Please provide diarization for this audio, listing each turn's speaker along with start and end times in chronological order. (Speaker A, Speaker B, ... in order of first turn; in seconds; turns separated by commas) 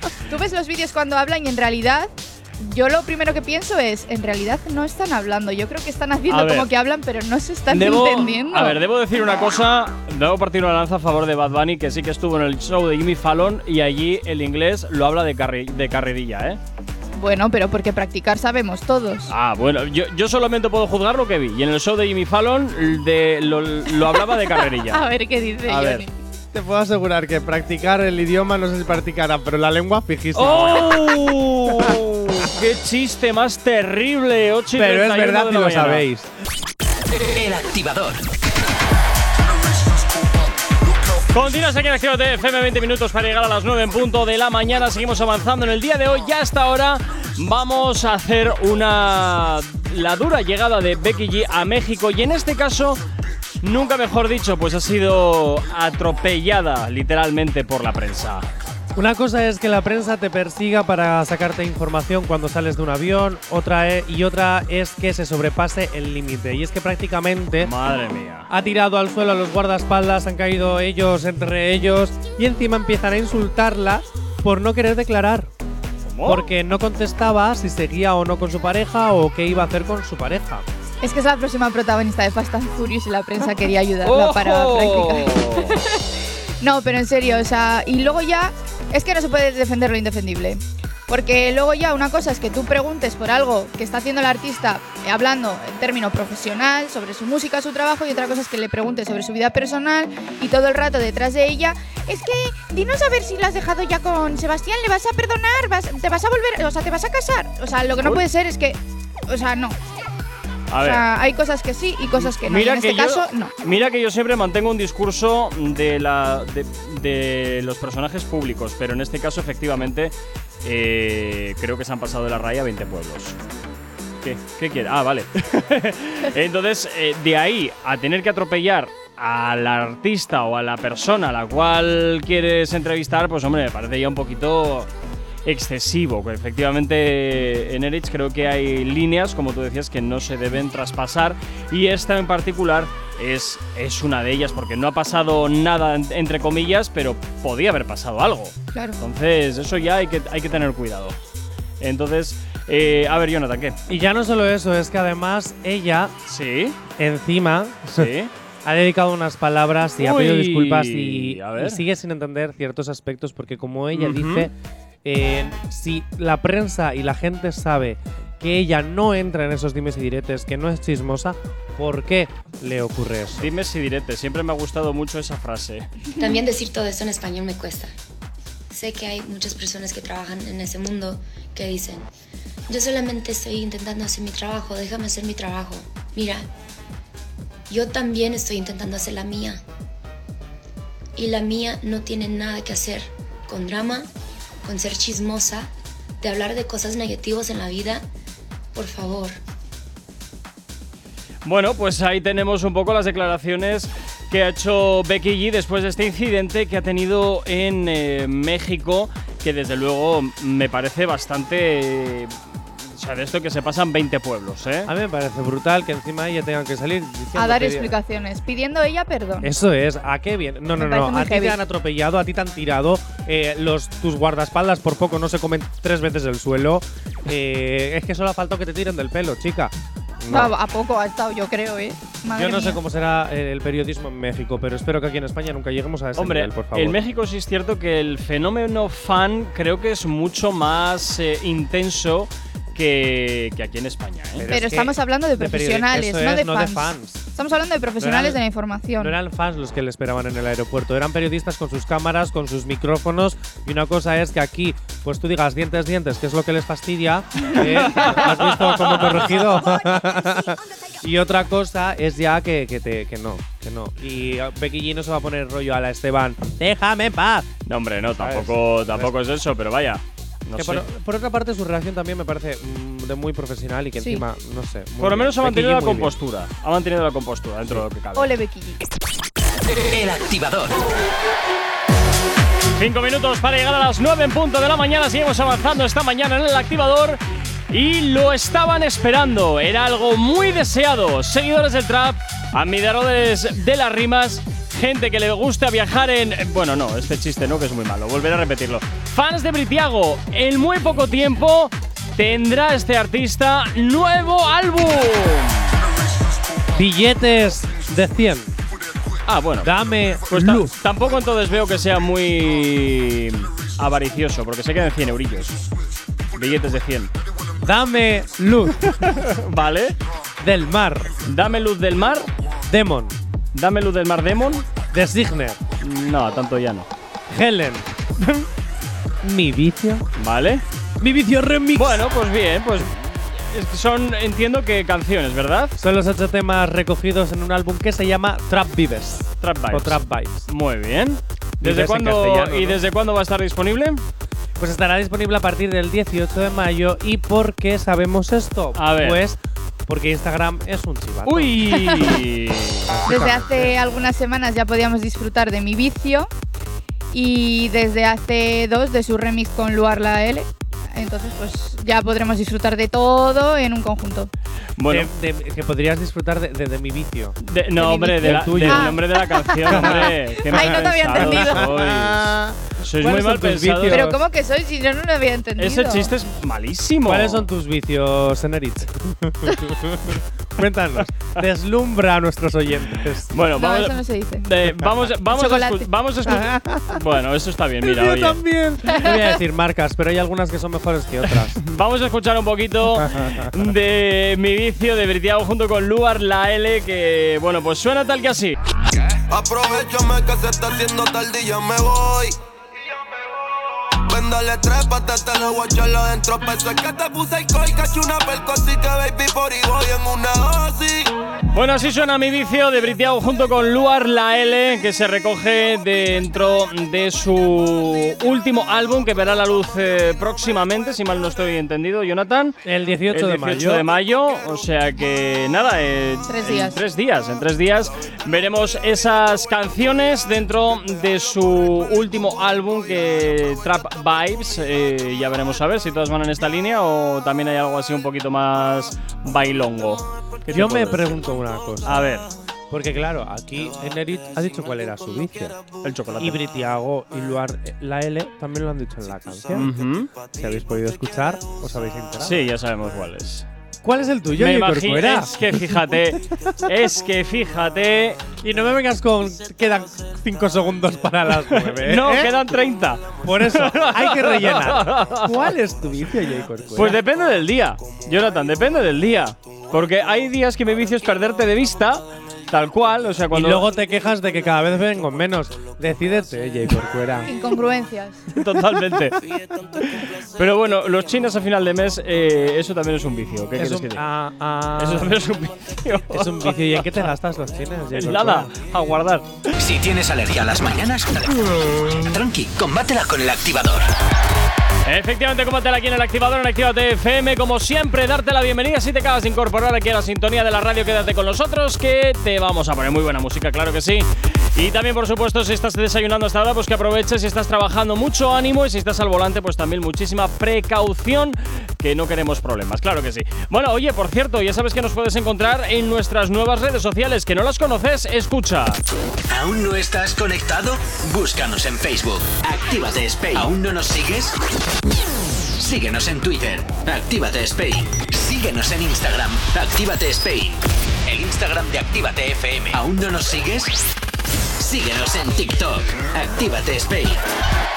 Speaker A: 0.3-8.8, Speaker B: 6.3-6.7, Speaker B: 7.7-16.6, Speaker A: 17.1-19.3, Speaker B: 19.3-25.0, Speaker A: 24.8-26.1, Speaker B: 25.7-26.1, Speaker C: 26.5-31.0, Speaker B: 30.3-36.0, Speaker C: 31.7-32.0, Speaker C: 34.8-36.3, Speaker D: 37.1-38.2, Speaker B: 41.3-53.0, Speaker B: 53.6-58.5, Speaker C: 58.9-67.7, Speaker B: 67.6-68.5, Speaker C: 68.5-75.5, Speaker B: 76.0-76.5, Speaker C: 76.2-80.7, Speaker A: 81.0-86.0, Speaker B: 84.0-85.8, Speaker A: 86.6-109.8, Speaker B: 110.7-111.0, Speaker A: 110.8-113.5, Speaker B: 112.1-123.4, Speaker B: 124.2-134.9, Speaker B: 135.4-151.2, Speaker B: 151.8-153.8, Speaker C: 153.9-156.1, Speaker B: 156.3-156.8, Speaker C: 157.0-158.1, Speaker B: 157.9-158.3, Speaker C: 158.6-164.5, Speaker B: 160.0-161.8, Speaker B: 163.9-164.5, Speaker C: 165.0-173.5, Speaker B: 173.4-175.9, Speaker E: 176.2-177.9, Speaker E: 178.7-182.1, Speaker E: 182.7-186.5, Speaker E: 187.7-189.6, Speaker E: 191.2-194.1, Speaker E: 194.6-198.1, Speaker E: 198.7-199.4, Speaker B: 201.4-212.4, Speaker B: 212.9-214.9, Speaker C: 214.8-217.9, Speaker A: 217.3-219.5, Speaker C: 219.4-230.5, Speaker A: 220.8-221.6, Speaker A: 230.3-232.8, Speaker C: 232.3-237.0, Speaker B: 236.2-244.5, Speaker C: 244.4-247.2, Speaker A: 244.5-249.1, Speaker C: 248.0-248.4, Speaker C: 249.0-267.5, Speaker B: 257.9-259.3, Speaker B: 267.6-270.8, Speaker C: 268.2-269.1, Speaker C: 270.6-276.1, Speaker B: 275.0-278.3, Speaker A: 278.1-278.8, Speaker D: 279.8-280.8, Speaker B: 282.8-305.8, Speaker C: 306.7-308.5, Speaker B: 309.2-309.8, Speaker C: 309.6-310.7, Speaker B: 310.3-315.6, Speaker B: 316.3-317.1, Speaker C: 317.6-319.1, Speaker B: 318.8-319.9, Speaker C: 320.4-321.1, Speaker B: 321.2-322.3, Speaker C: 322.7-323.1, Speaker B: 323.5-324.6, Speaker C: 324.9-325.6, Speaker B: 325.8-326.9, Speaker C: 327.3-327.9, Speaker C: 329.2-330.0, Speaker B: 330.2-330.6, Speaker C: 331.0-332.0, Speaker B: 331.8-335.8, Speaker C: 335.8-340.4, Speaker B: 339.4-344.0, Speaker C: 341.6-342.8, Speaker C: 344.6-351.7, Speaker B: 348.8-349.2, Speaker B: 351.2-353.0, Speaker A: 351.7-352.1, Speaker C: 352.9-353.8, Speaker A: 353.1-356.3, Speaker A: 357.1-364.3, Speaker B: 364.8-365.1, Speaker C: 364.9-367.4, Speaker B: 367.4-374.1, Speaker A: 367.8-371.7, Speaker C: 368.2-369.0, Speaker C: 369.7-374.2, Speaker A: 373.9-376.1, Speaker B: 375.6-377.5, Speaker C: 377.1-383.3, Speaker B: 383.3-388.4, Speaker A: 383.5-384.4, Speaker A: 385.3-385.9, Speaker C: 386.3-387.0, Speaker C: 387.8-391.6, Speaker A: 388.9-389.2, Speaker B: 391.3-398.6, Speaker C: 393.0-393.5, Speaker F: 399.3-402.4, Speaker F: 404.1-411.1, Speaker B: 411.5-422.6, Speaker C: 422.6-423.9, Speaker B: 423.1-441.1, Speaker A: 426.3-426.8, Speaker C: 440.5-442.1, Speaker B: 441.8-442.3, Speaker C: 442.7-445.6, Speaker B: 445.8-446.4, Speaker C: 446.2-449.7, Speaker B: 449.5-450.1, Speaker C: 450.2-452.5, Speaker B: 452.2-453.5, Speaker C: 453.8-456.1, Speaker B: 454.4-458.2, Speaker C: 458.4-462.4, Speaker B: 461.5-465.3, Speaker C: 463.2-467.0, Speaker B: 466.7-473.6, Speaker C: 473.3-477.3, Speaker A: 477.2-478.2, Speaker B: 478.3-479.2, Speaker B: 479.8-484.0, Speaker C: 483.6-485.2, Speaker B: 484.8-487.0, Speaker C: 486.1-488.5, Speaker B: 487.9-489.3, Speaker D: 489.6-493.9, Speaker B: 494.8-518.8, Speaker D: 519.3-524.4, Speaker D: 525.6-533.9, Speaker D: 534.6-537.2